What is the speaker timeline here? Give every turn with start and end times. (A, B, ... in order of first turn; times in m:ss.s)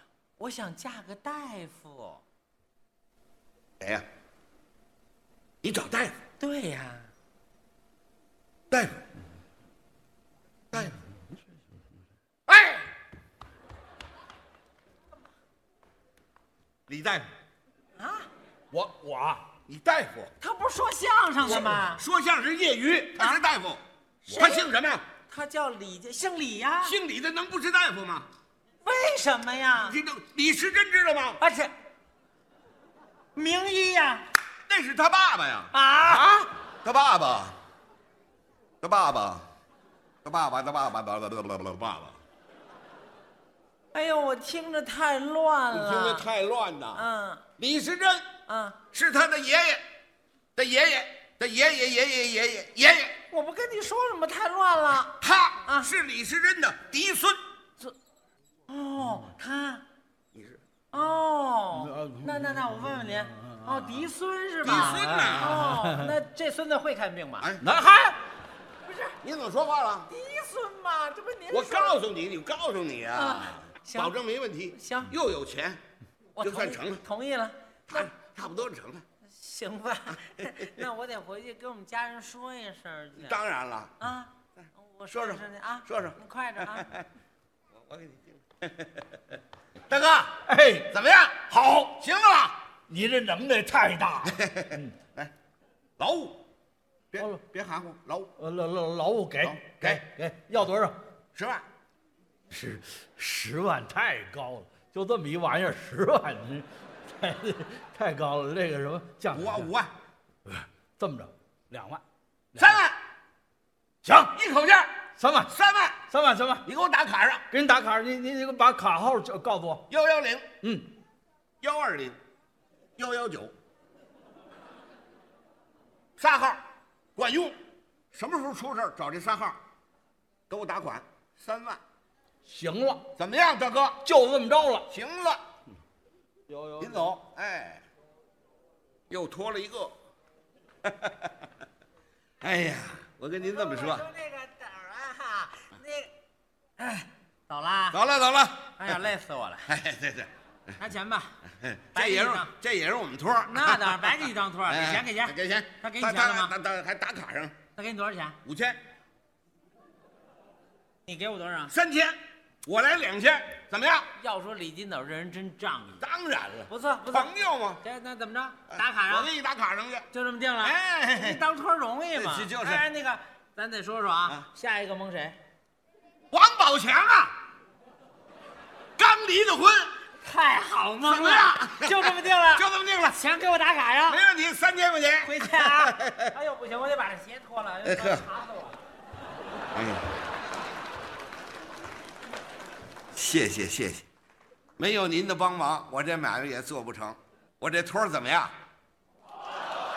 0:00.4-0:02.2 A
0:03.8-0:04.0 B
0:05.6-0:06.2 B
0:06.4-0:07.1 A
0:08.7-0:09.0 B
0:10.7-0:11.0 B
0:12.5-0:12.8 B
0:16.9-0:17.3 B
0:18.0-0:18.3 A
0:18.7-0:19.4 C
0:19.7-0:20.3 B
0:20.4-0:22.0 A
0:21.4-0:25.0 B
0:24.3-0:24.7 A
0:25.3-0:27.0 A
0:26.8-0:28.3 B
0:28.8-0:30.0 A
0:29.7-0:31.4 B
0:31.4-0:31.7 A
0:33.4-0:34.3 A
0:34.7-0:37.6 B
0:35.7-0:36.5 A
0:38.8-0:39.5 B
0:40.2-0:42.2 B
0:43.9-0:46.3 A
0:45.7-0:47.0 B
0:47.0-0:47.4 A
0:47.6-0:48.3 B
0:48.5-0:48.8 A
0:48.9-0:49.8 B
0:50.6-0:53.2 B
0:53.3-0:55.9 A
0:55.2-0:57.4 B
0:58.7-0:59.8 A
1:00.3-1:00.6 B
1:00.9-1:07.5 A
1:01.7-1:04.1 C
1:04.6-1:05.7 B
1:04.7-1:06.2 C
1:07.6-1:08.2 C
1:08.8-1:09.2 A
1:09.2-1:10.1 B
1:10.1-1:12.0 A
1:11.5-1:15.8 B
1:13.1-1:14.2 A
1:14.7-1:15.1 A
1:16.4-1:18.1 A
1:16.4-1:17.0 B
1:17.9-1:19.0 B
1:19.3-1:23.4 A
1:23.2-1:23.9 B
1:24.0-1:26.9 A
1:25.1-1:27.1 B
1:27.8-1:29.2 B
1:29.9-1:32.6 B
1:30.5-1:30.9 C
1:31.6-1:31.8 C
1:32.9-1:34.9 C
1:34.2-1:35.3 B
1:36.0-1:36.4 B
1:37.1-1:38.3 B
1:38.4-1:41.0 C
1:39.4-1:40.0 B
1:41.3-1:41.7 B
1:42.5-1:49.7 C
1:49.3-1:49.9 B
1:50.5-1:52.0 C
1:52.6-1:53.0 B
1:54.0-1:54.3 C
1:54.3-1:54.9 B
1:55.2-1:55.5 C
1:55.4-1:56.0 B
1:56.1-1:56.6 C
1:56.6-1:57.4 B
1:57.5-1:59.8 C
1:59.9-2:00.5 B
2:00.6-2:00.9 C
2:01.6-2:02.2 B
2:03.0-2:03.5 B
2:06.2-2:06.6 B
2:07.2-2:07.6 B
2:08.1-2:09.6 B
2:10.5-2:11.8 B
2:12.4-2:13.0 C
2:13.2-2:14.0 B
2:14.0-2:14.9 C
2:14.9-2:15.4 B
2:16.5-2:17.1 C
2:16.8-2:17.8 B
2:19.1-2:20.0 B
2:20.8-2:21.3 B
2:22.4-2:24.1 B
2:23.4-2:26.1 A
2:26.8-2:28.0 A
2:27.9-2:29.0 B
2:28.8-2:29.7 A
2:29.7-2:30.3 B
2:30.8-2:31.4 A
2:31.5-2:34.2 B
2:32.0-2:32.5 A
2:33.5-2:36.5 A
2:34.7-2:37.6 B
2:37.8-2:38.4 A
2:38.4-2:38.8 B
2:41.1-2:41.7 A
2:41.7-2:44.1 B
2:44.2-2:46.0 A
2:46.0-2:47.8 B
2:46.7-2:49.3 A
2:48.7-2:50.1 B
2:50.1-2:55.4 A
2:50.6-2:51.4 B
2:52.2-2:52.8 B
2:56.3-2:57.4 B
2:59.0-2:59.9 B
3:00.2-3:04.2 A
3:01.1-3:03.2 B
3:04.1-3:06.3 B
3:05.2-3:08.8 A
3:07.8-3:08.2 B
3:09.7-3:10.1 B
3:13.1-3:14.1 B
3:14.8-3:18.5 B